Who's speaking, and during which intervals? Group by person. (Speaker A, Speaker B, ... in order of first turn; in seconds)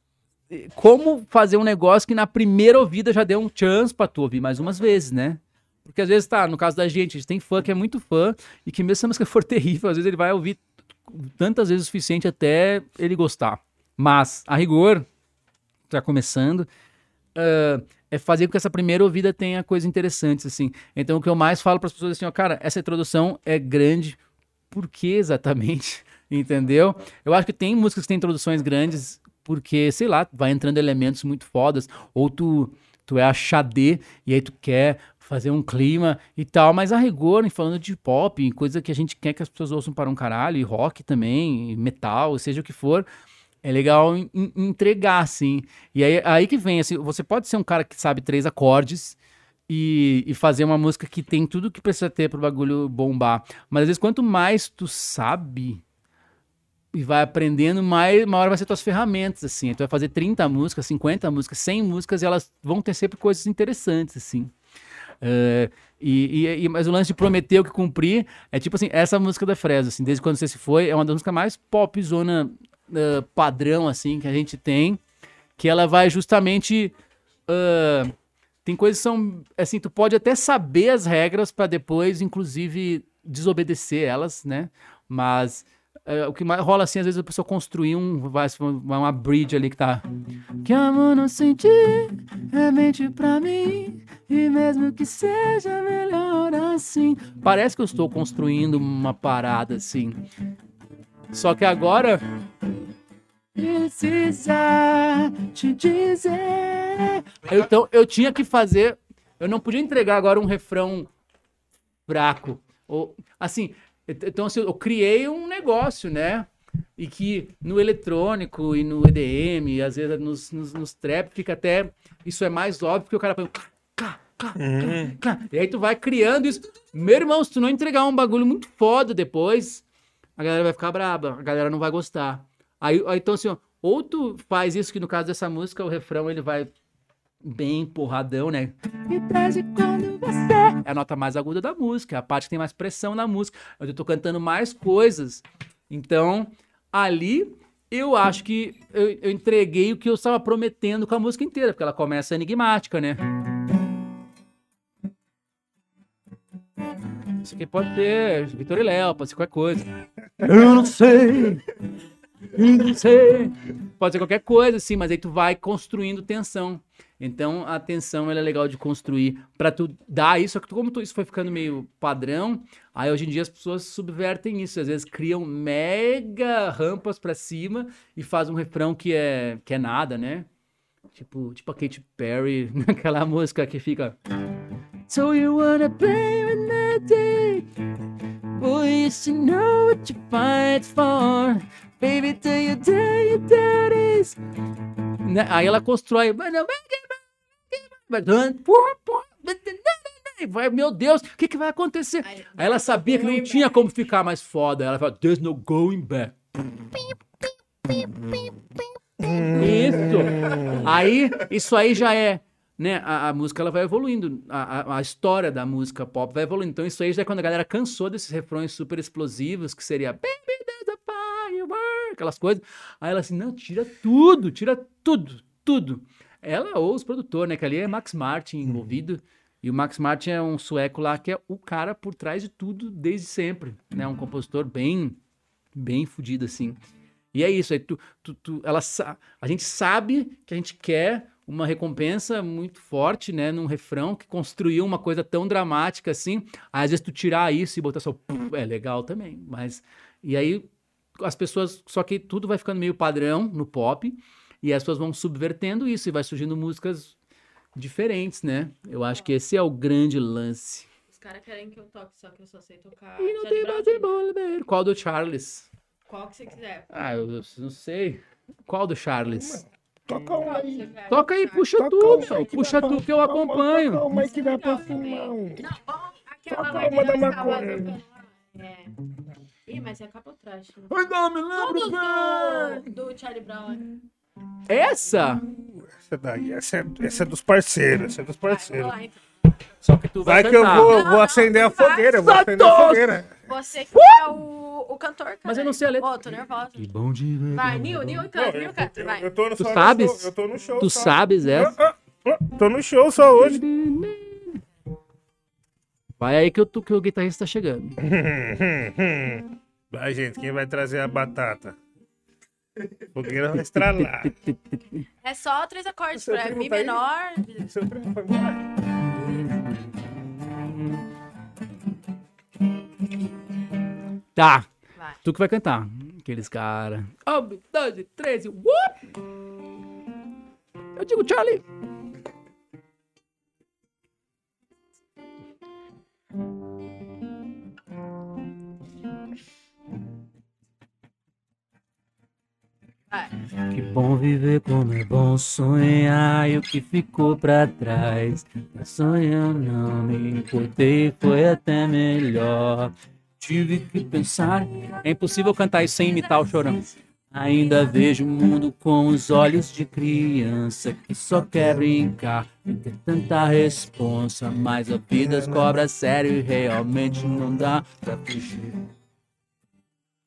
Speaker A: 0.5-15.1, 15.9-16.7, 17.4-24.2, 24.7-43.1, 43.6-55.8, 56.9-64.5, 65.2-75.0, 75.6-76.9, 77.5-78.1, 78.7-90.0, 90.6-100.3, 101.3-102.2, 103.6-111.1, 112.1-129.8, 130.4-136.7, 137.4-153.2, 157.4-161.7, 162.5-180.5, 181.1-184.2, 185.1-187.7, 188.5-194.4, 195.2-197.2, 197.7-206.3, 207.9-208.6, 209.6-235.2, 235.7-236.8, 237.3-250.7, 251.2-257.1, 257.8-260.9, 263.2-265.7, 266.9-269.6, 271.1-274.1, 280.9-282.9, 284.7-285.4, 289.8-291.0, 292.2-293.2, 293.9-294.3, 295.4-298.2, 299.6-301.8, 303.4-304.6, 306.2-308.0, 313.7-315.1, 319.1-320.8, 324.4-324.7, 325.2-329.1, 330.9-331.6, 343.7-368.8
Speaker B: 124.6-125.2, 209.2-210.9, 269.4-270.9, 271.8-275.6, 276.5-278.0, 286.0-288.9, 290.2-293.3, 298.3-303.6, 308.0-311.8, 313.1-314.3, 316.1-317.0, 317.7-318.6, 365.1-365.8
Speaker C: 202.2-203.7, 261.1-264.1, 266.1-266.9, 270.2-272.2, 274.1-278.9, 279.6-280.9, 281.6-284.0, 288.5-289.1, 290.7-292.2, 293.5-296.9, 297.6-299.3, 315.2-317.7